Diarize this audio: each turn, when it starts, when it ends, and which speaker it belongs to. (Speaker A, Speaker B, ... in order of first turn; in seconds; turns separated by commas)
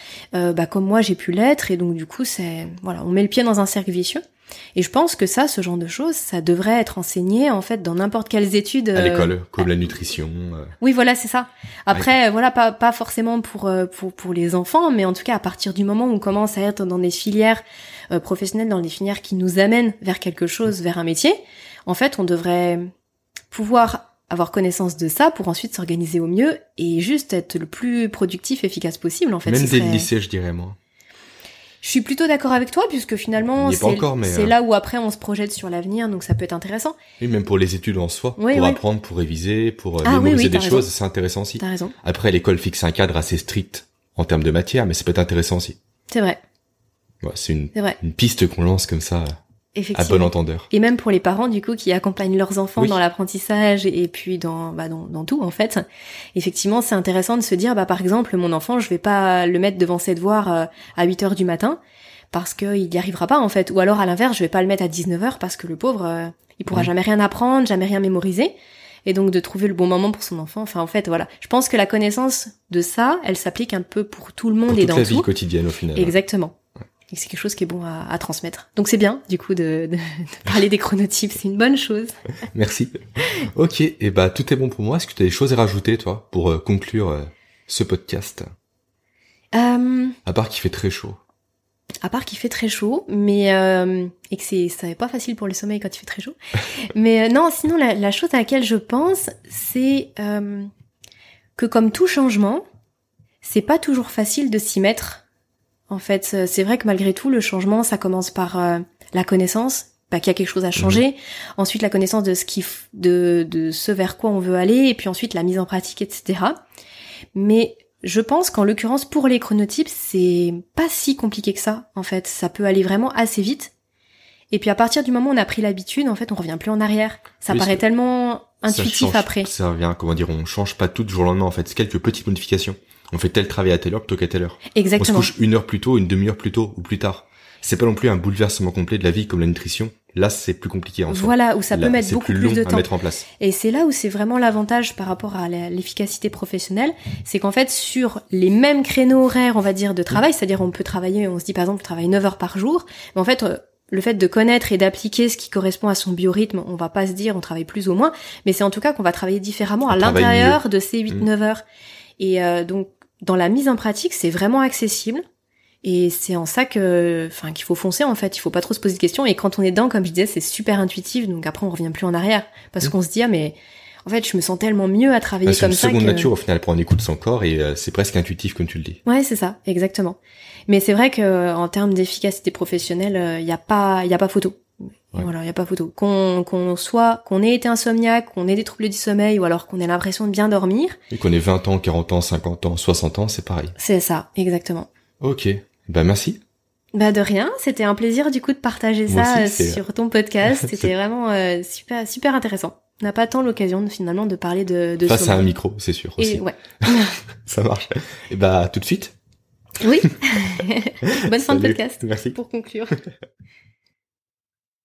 Speaker A: 0.3-4.2, Speaker A: 4.8-9.3, Speaker B: 8.9-10.7, Speaker A: 10.8-22.9, Speaker A: 23.5-30.1, Speaker B: 29.4-30.8, Speaker A: 31.8-37.0, Speaker B: 33.6-34.5, Speaker B: 37.2-45.8, Speaker A: 38.4-38.8, Speaker A: 40.0-40.9, Speaker A: 41.6-41.9, Speaker A: 46.1-46.4, Speaker B: 47.2-49.4, Speaker A: 49.8-55.8, Speaker B: 49.9-50.7, Speaker A: 56.4-61.8, Speaker A: 62.3-68.5, Speaker A: 69.0-75.3, Speaker B: 74.7-76.2, Speaker A: 76.0-76.6, Speaker A: 77.1-82.2, Speaker B: 82.5-88.5, Speaker A: 89.5-90.2, Speaker B: 90.2-91.2, Speaker A: 92.0-100.7, Speaker A: 101.6-102.6, Speaker A: 103.4-105.2, Speaker A: 105.9-116.6, Speaker A: 117.3-123.7, Speaker A: 124.5-129.5, Speaker B: 127.5-127.8, Speaker B: 128.7-143.3, Speaker A: 134.7-135.3, Speaker A: 141.1-161.6, Speaker B: 159.9-160.6, Speaker A: 162.2-165.2, Speaker A: 165.8-176.3, Speaker B: 175.5-179.0, Speaker A: 179.1-191.0, Speaker B: 191.1-193.7, Speaker A: 193.8-194.9, Speaker B: 195.2-196.4, Speaker A: 196.9-205.5, Speaker B: 199.1-199.8, Speaker B: 200.6-200.9, Speaker B: 205.1-209.2, Speaker A: 206.2-207.2, Speaker A: 209.8-212.9, Speaker B: 211.1-212.4